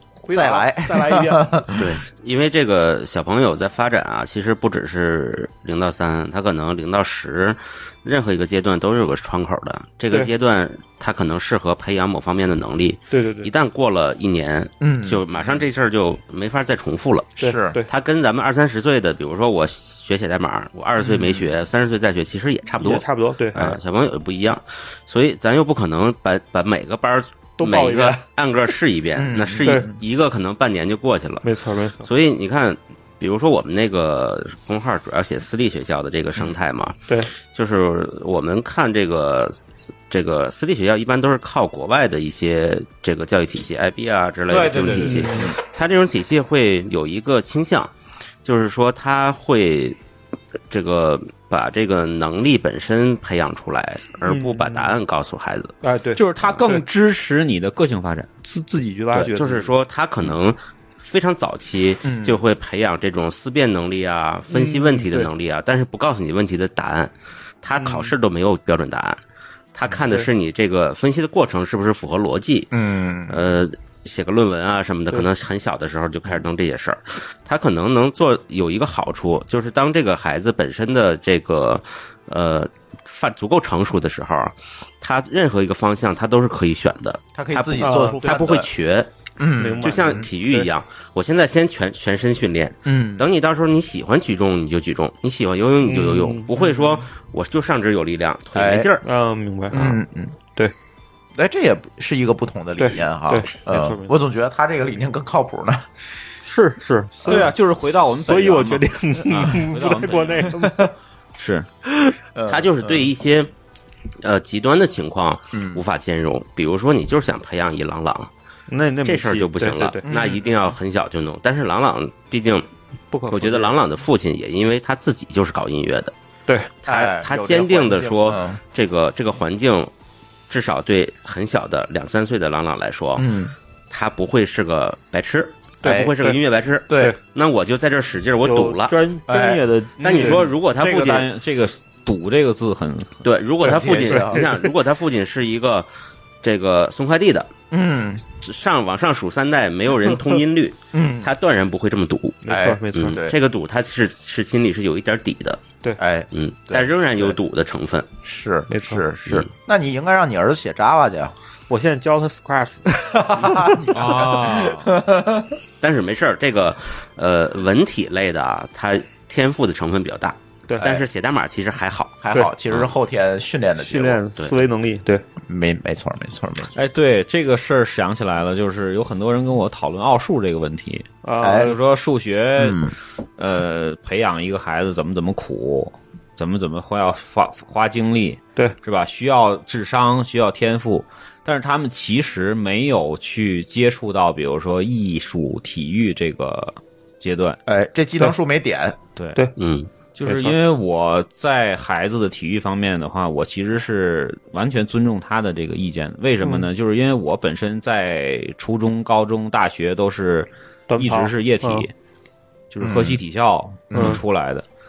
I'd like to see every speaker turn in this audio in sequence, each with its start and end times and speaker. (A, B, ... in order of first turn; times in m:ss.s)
0:00.2-0:01.6 A
0:00.3-0:01.9 B
0:01.7-0:37.0 C
0:13.1-0:13.5 A
0:14.8-0:15.6 B
0:17.4-0:17.8 B
0:17.4-0:17.9 A
0:21.0-0:21.5 B
0:22.8-0:23.6 A
0:27.6-0:28.2 A
0:29.2-0:29.9 B
0:31.4-0:32.1 A
0:37.5-0:39.6 C
0:40.1-0:47.9 C
0:44.5-0:45.6 D
0:44.9-0:45.5 A
0:48.4-0:50.0 C
0:50.7-0:55.8 C
0:54.3-0:55.0 A
0:55.8-0:56.8 A
0:56.2-0:58.3 D
0:58.4-0:59.8 A
0:59.1-1:09.2 C
1:02.0-1:02.4 B
1:04.5-1:05.3 A
1:07.8-1:08.1 A
1:09.8-1:12.7 C
1:12.7-1:13.5 B
1:13.3-1:29.1 C
1:27.4-1:28.7 B
1:27.8-1:28.3 A
1:29.4-1:30.3 B
1:29.6-1:30.7 A
1:29.8-1:39.0 C
1:32.8-1:33.3 B
1:35.8-1:37.1 A
1:38.5-1:38.9 B
1:39.0-1:39.8 A
1:39.7-1:40.0 C
1:39.7-1:40.4 B
1:41.4-1:45.9 B
1:42.8-1:44.1 A
1:46.4-1:47.6 A
1:47.2-1:50.6 D
1:48.2-1:50.9 A
1:51.4-1:51.7 D
1:51.8-1:52.2 A
1:52.4-1:53.1 B
1:52.5-1:53.5 C
1:54.2-1:58.3 C
1:55.5-1:55.8 B
1:58.7-2:00.0 A
1:59.0-2:02.7 C
2:00.0-2:00.4 B
2:03.1-2:03.8 A
2:03.3-2:06.1 C
2:06.8-2:09.9 C
2:06.9-2:08.6 B
2:10.5-2:13.3 C
2:13.2-2:13.6 B
2:13.9-2:19.0 C
2:15.8-2:16.4 A
2:15.8-2:16.1 B
2:16.9-2:17.2 B
2:18.4-2:20.4 A
2:19.3-2:19.6 B
2:20.0-2:23.2 D
2:20.0-2:21.3 C
2:23.2-2:25.9 C
2:23.6-2:24.5 B
2:23.6-2:24.7 A
2:26.4-2:27.5 C
2:27.7-2:28.2 B
2:28.4-2:32.4 C
2:30.9-2:31.3 B
2:32.4-2:33.2 A
2:32.5-2:33.4 B
2:32.9-2:35.6 C
2:36.0-2:37.4 B
2:36.3-2:38.1 C
2:38.2-2:41.3 B
2:38.7-2:39.0 A
2:41.7-2:44.2 A
2:43.2-2:45.6 B
2:43.9-2:44.9 D
2:45.8-2:52.2 C
2:50.8-2:51.0 B
2:52.2-2:54.2 B
2:53.8-2:55.2 A
2:55.4-2:56.8 B
2:56.7-3:17.6 D
3:01.2-3:01.8 A
3:01.4-3:01.7 B
3:02.6-3:02.9 B
3:17.7-3:19.0 B
3:19.2-3:19.4 D
3:19.6-3:19.9 C
3:20.2-3:31.9 D
3:20.3-3:20.6 A
3:26.4-3:26.7 A
3:30.9-3:31.9 A
3:32.7-3:34.7 D
3:32.8-3:33.2 B
3:33.9-3:34.2 B
3:33.9-3:34.2 A